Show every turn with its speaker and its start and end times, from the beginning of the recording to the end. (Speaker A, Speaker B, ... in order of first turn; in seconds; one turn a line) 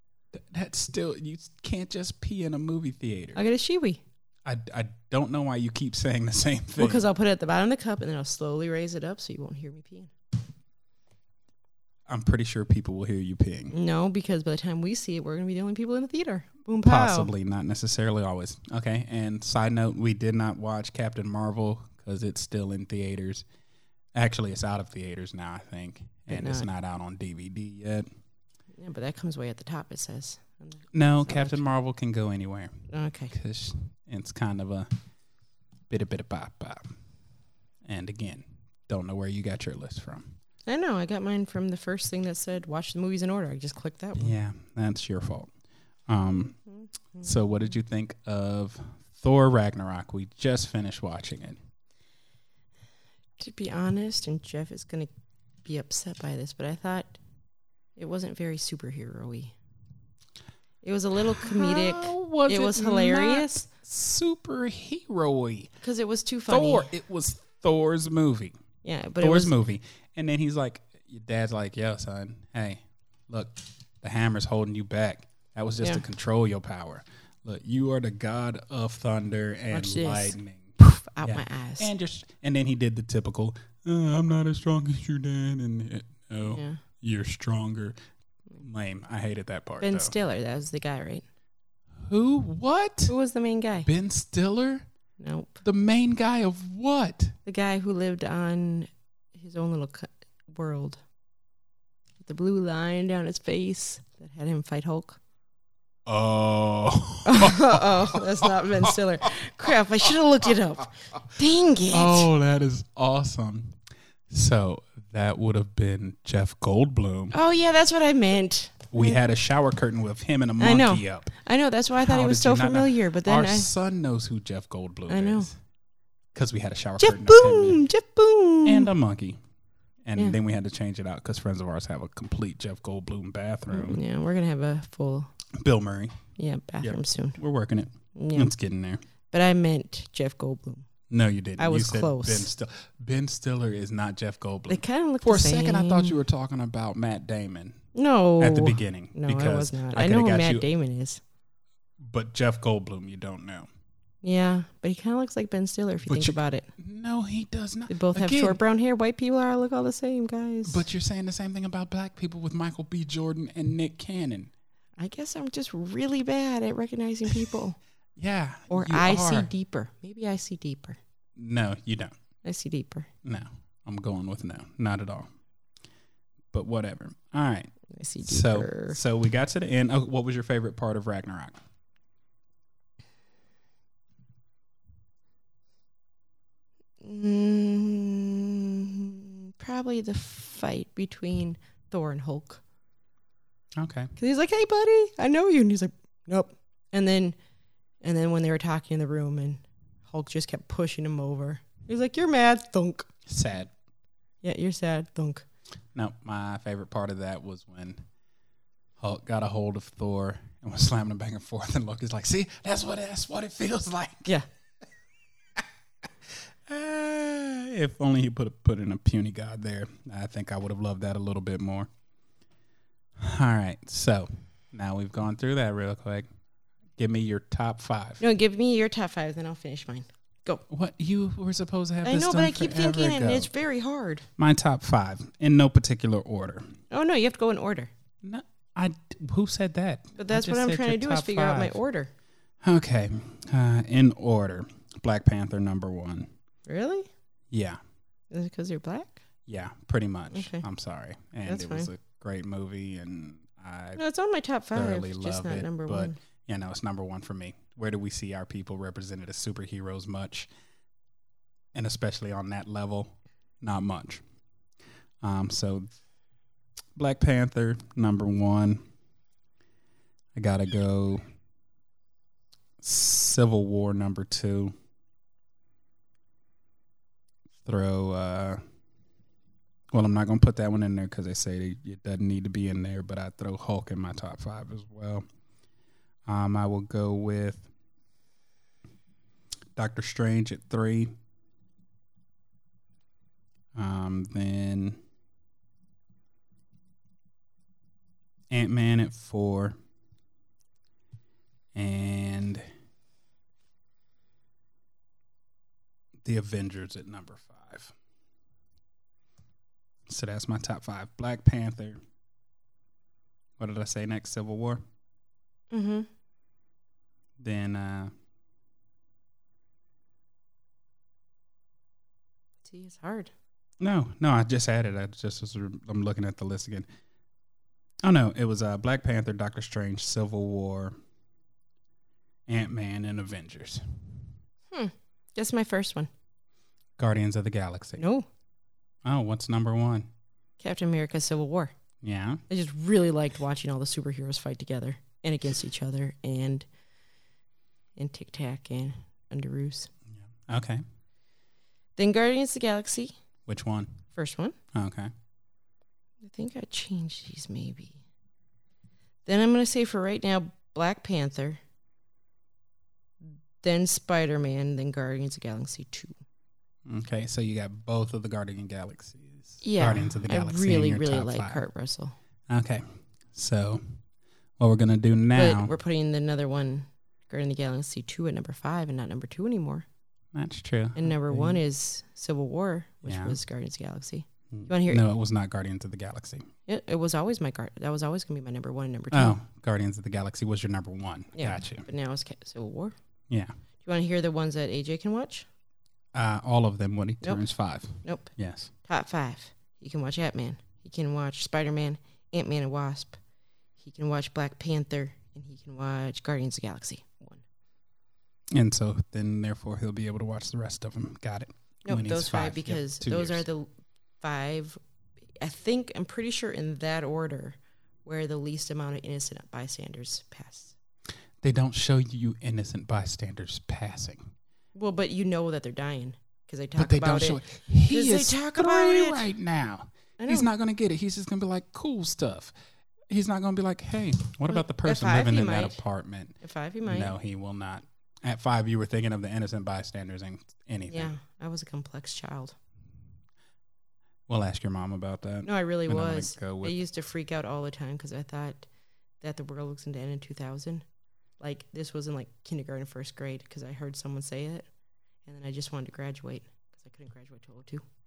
Speaker A: 0.3-3.4
Speaker B: 3.3-4.0
Speaker A: 4.4-7.1
Speaker B: 6.8-10.1
Speaker A: 12.1-13.7
Speaker B: 13.7-17.3
Speaker A: 16.8-23.4
Speaker A: 24.1-28.1
Speaker B: 26.3-26.7
Speaker B: 28.8-31.6
Speaker A: 30.9-32.7
Speaker B: 32.9-33.3
Speaker A: 33.3-34.9
Speaker A: 35.9-36.9
Speaker A: 37.8-40.4
Speaker B: 40.7-44.3
Speaker A: 44.1-45.5
Speaker A: 46.1-46.6
Speaker B: 46.7-47.4
Speaker A: 47.2-51.6
Speaker B: 53.4-55.1
Speaker B: 55.6-57.2
Speaker B: 58.0-59.5
Speaker B: 60.8-63.6
Speaker A: 61.3-65.7
Speaker B: 65.8-66.9
Speaker A: 66.5-68.5
Speaker B: 68.8-69.5
Speaker A: 69.2-87.9
Speaker B: 79.7-81.9
Speaker B: 86.4-86.8
Speaker A: 88.6-90.1
Speaker B: 89.8-91.2
Speaker A: 92.0-93.1
Speaker B: 93.1-93.9
Speaker A: 93.8-94.8
Speaker B: 95.2-95.6
Speaker A: 95.6-97.3
Speaker B: 97.4-101.0
Speaker B: 102.2-105.2
Speaker A: 106.0-108.9
Speaker B: 107.2-112.3
Speaker A: 111.9-113.8
Speaker A: 114.3-117.3
Speaker B: 117.3-119.2
Speaker A: 118.9-121.3
Speaker B: 120.6-123.7
Speaker A: 122.0-125.5
Speaker B: 125.1-125.5
Speaker A: 126.3-127.8
Speaker B: 127.0-128.9
Speaker A: 128.6-129.4
Speaker A: 130.0-134.0
Speaker B: 133.7-135.3
Speaker A: 135.5-136.2
Speaker B: 136.3-137.4
Speaker A: 136.8-139.0
Speaker B: 138.1-138.5
Speaker B: 139.3-140.9
Speaker A: 141.1-147.8
Speaker B: 141.6-142.5
Speaker B: 144.7-146.2
Speaker B: 147.9-151.2
Speaker A: 148.4-150.7
Speaker A: 152.0-153.7
Speaker B: 154.2-156.7
Speaker A: 156.0-158.6
Speaker B: 157.9-160.8
Speaker A: 160.6-164.5
Speaker B: 165.0-167.8
Speaker A: 168.2-169.5
Speaker B: 168.7-171.0
Speaker A: 171.3-172.1
Speaker B: 172.4-173.1
Speaker A: 173.2-175.3
Speaker A: 176.5-177.7
Speaker B: 177.9-179.0
Speaker A: 178.2-181.6
Speaker B: 187.0-192.6
Speaker A: 193.8-194.1
Speaker B: 194.2-197.3
Speaker B: 198.0-203.1
Speaker A: 203.2-203.7
Speaker B: 204.4-205.4
Speaker A: 205.9-208.0
Speaker A: 209.0-214.3
Speaker A: 216.7-221.9
Speaker A: 223.2-226.3
Speaker A: 227.0-228.2
Speaker B: 228.2-230.6
Speaker A: 230.7-233.5
Speaker B: 232.0-234.2
Speaker A: 234.4-236.7
Speaker B: 236.9-237.9
Speaker A: 238.2-241.8
Speaker B: 240.2-242.1
Speaker A: 242.6-246.3
Speaker B: 246.7-247.1
Speaker A: 247.5-247.8
Speaker B: 248.3-249.2
Speaker A: 249.5-254.0
Speaker B: 250.3-250.6
Speaker B: 251.4-251.9
Speaker B: 254.0-256.2
Speaker A: 254.7-260.5
Speaker A: 261.7-264.2
Speaker A: 265.2-265.9
Speaker A: 266.9-268.8
Speaker A: 270.3-271.2
Speaker A: 272.8-274.7
Speaker A: 277.6-278.6
Speaker A: 279.9-285.2
Speaker A: 286.2-287.7
Speaker A: 289.8-291.1
Speaker A: 293.7-295.0
Speaker A: 298.5-299.8
Speaker A: 301.7-302.6
Speaker A: 306.2-307.9
Speaker A: 310.1-312.0
Speaker A: 313.6-314.8
Speaker B: 315.7-316.1
Speaker A: 317.4-318.1
Speaker B: 322.6-323.3
Speaker A: 323.8-326.9
Speaker A: 328.0-330.9
Speaker A: 332.5-334.1
Speaker B: 334.7-336.1
Speaker A: 337.0-338.0
Speaker B: 338.0-338.3
Speaker A: 339.0-340.1
Speaker B: 340.6-341.7
Speaker A: 342.0-342.4
Speaker B: 342.5-346.7
Speaker B: 348.0-349.9
Speaker A: 350.1-350.8
Speaker B: 351.9-353.1
Speaker A: 353.5-354.0
Speaker B: 354.1-354.6
Speaker A: 354.7-355.1
Speaker B: 356.2-358.0
Speaker B: 359.2-361.6
Speaker B: 363.2-366.1
Speaker A: 366.9-371.6
Speaker B: 369.6-372.1
Speaker A: 372.5-374.0
Speaker A: 374.6-375.7
Speaker B: 375.3-379.9
Speaker A: 380.3-381.6
Speaker B: 380.9-385.0
Speaker A: 383.0-383.4
Speaker A: 384.5-386.5
Speaker B: 386.7-389.4
Speaker A: 389.1-391.9
Speaker B: 391.3-392.9
Speaker B: 393.8-395.5
Speaker A: 396.1-398.7
Speaker B: 398.0-398.3
Speaker B: 398.8-403.2
Speaker B: 403.8-407.4
Speaker A: 408.5-413.4
Speaker B: 411.8-413.7
Speaker B: 414.2-414.8
Speaker B: 415.4-420.8
Speaker A: 421.4-424.3
Speaker B: 424.7-429.3
Speaker A: 426.8-432.5
Speaker B: 430.2-430.5
Speaker A: 433.1-441.1
Speaker B: 434.5-435.8
Speaker B: 436.4-437.1
Speaker B: 440.9-442.6
Speaker A: 444.3-446.8
Speaker B: 445.4-448.7
Speaker B: 449.2-450.8
Speaker B: 451.4-454.7
Speaker B: 455.2-457.8